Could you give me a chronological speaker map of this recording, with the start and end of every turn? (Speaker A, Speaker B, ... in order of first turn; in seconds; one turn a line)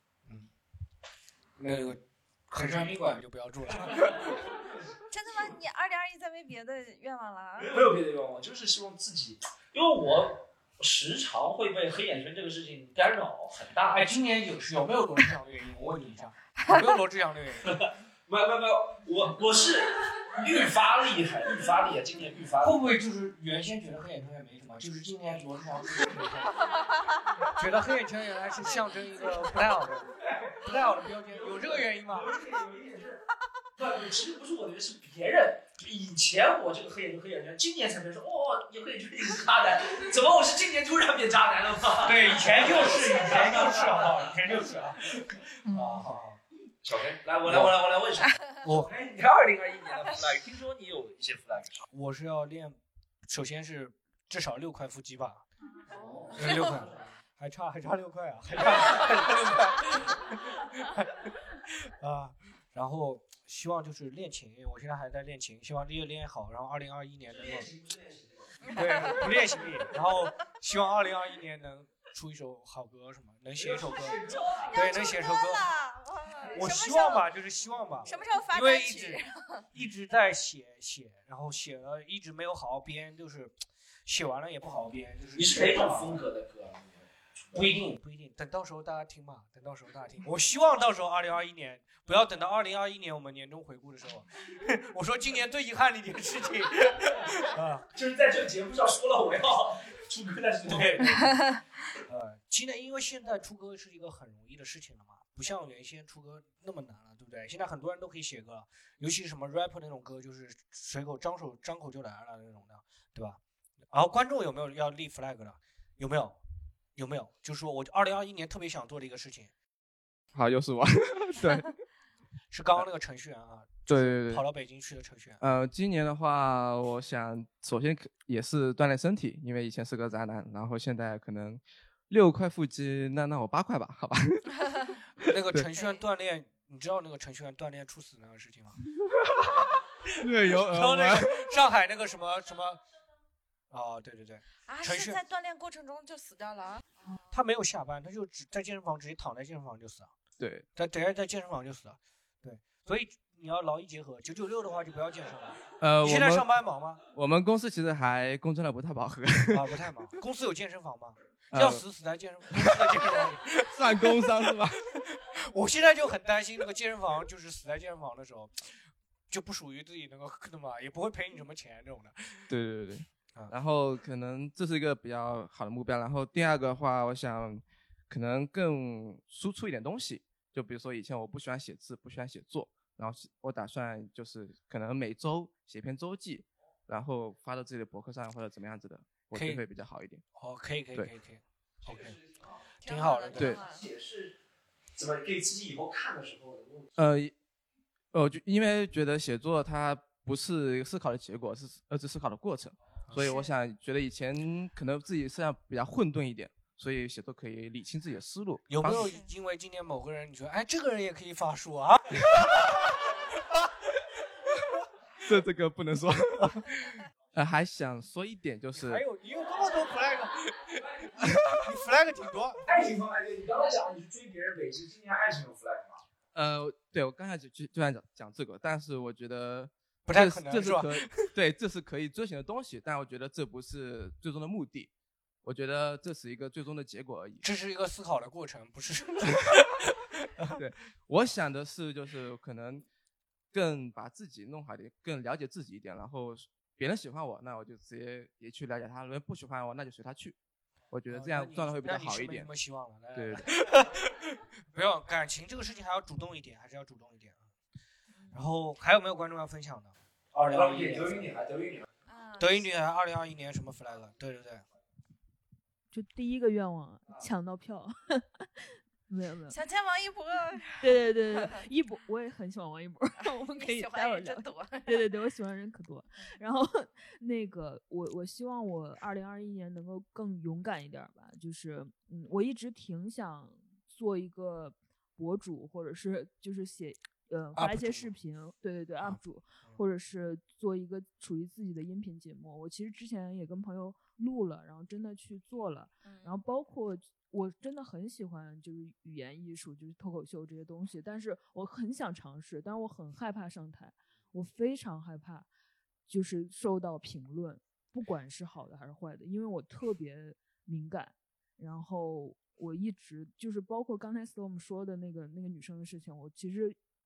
Speaker A: 1.6-4.4
Speaker B: 3.9-4.5
Speaker C: 5.1-7.7
Speaker B: 7.6-14.1
Speaker A: 13.9-17.9
Speaker B: 17.7-22.8
Speaker A: 22.6-26.8
Speaker C: 26.7-27.5
Speaker A: 27.5-32.4
Speaker C: 28.6-29.7
Speaker B: 30.3-33.2
Speaker B: 33.8-44.6
Speaker A: 42.0-46.4
Speaker B: 46.8-51.9
Speaker A: 47.4-47.8
Speaker A: 48.6-48.9
Speaker A: 51.9-55.5
Speaker B: 55.9-57.1
Speaker C: 56.0-56.8
Speaker A: 56.3-67.7
Speaker B: 67.3-69.6
Speaker C: 68.7-69.3
Speaker A: 68.7-75.7
Speaker B: 73.5-75.3
Speaker C: 74.7-77.3
Speaker A: 76.5-86.2
Speaker C: 78.0-79.7
Speaker B: 85.3-87.9
Speaker A: 87.5-97.8
Speaker B: 97.9-101.4
Speaker A: 100.6-113.4
Speaker A: 113.9-116.4
Speaker A: 117.0-119.5
Speaker D: 120.3-121.7
Speaker A: 122.5-125.4
Speaker D: 123.9-124.5
Speaker D: 125.4-134.5
Speaker A: 135.2-138.8
Speaker C: 135.6-136.0
Speaker D: 140.2-141.5
Speaker A: 140.5-142.8
Speaker A: 143.7-145.2
Speaker C: 144.7-147.2
Speaker A: 147.3-150.1
Speaker D: 150.4-150.7
Speaker A: 150.7-157.0
Speaker D: 155.8-156.5
Speaker D: 157.1-160.0
Speaker A: 159.5-172.5
Speaker D: 161.5-161.8
Speaker D: 162.5-164.8
Speaker D: 172.5-190.2
Speaker A: 189.3-189.6
Speaker A: 190.3-192.2
Speaker B: 191.8-192.6
Speaker C: 192.8-193.8
Speaker A: 192.8-193.6
Speaker B: 193.4-194.4
Speaker B: 194.9-196.9
Speaker D: 197.0-197.3
Speaker D: 198.1-209.2
Speaker C: 203.2-203.6
Speaker A: 208.7-213.0
Speaker C: 208.8-209.3
Speaker D: 212.2-212.6
Speaker D: 215.2-219.0
Speaker A: 218.8-220.6
Speaker D: 221.2-221.5
Speaker A: 221.2-222.6
Speaker B: 222.6-226.0
Speaker D: 226.3-234.9
Speaker A: 230.1-231.1
Speaker D: 235.4-237.4
Speaker A: 237.4-239.7
Speaker D: 240.5-242.9
Speaker D: 243.5-250.3
Speaker D: 250.9-252.5
Speaker A: 251.1-254.2
Speaker D: 253.1-253.9
Speaker A: 254.7-257.4
Speaker C: 258.1-258.5
Speaker A: 258.3-261.4
Speaker B: 260.3-261.9
Speaker C: 262.1-262.7
Speaker A: 262.4-264.6
Speaker E: 265.9-269.6
Speaker C: 269.5-271.6
Speaker E: 270.8-305.5
Speaker C: 273.2-275.1
Speaker A: 287.6-288.1
Speaker A: 289.0-289.8
Speaker C: 296.0-296.4
Speaker E: 306.1-316.8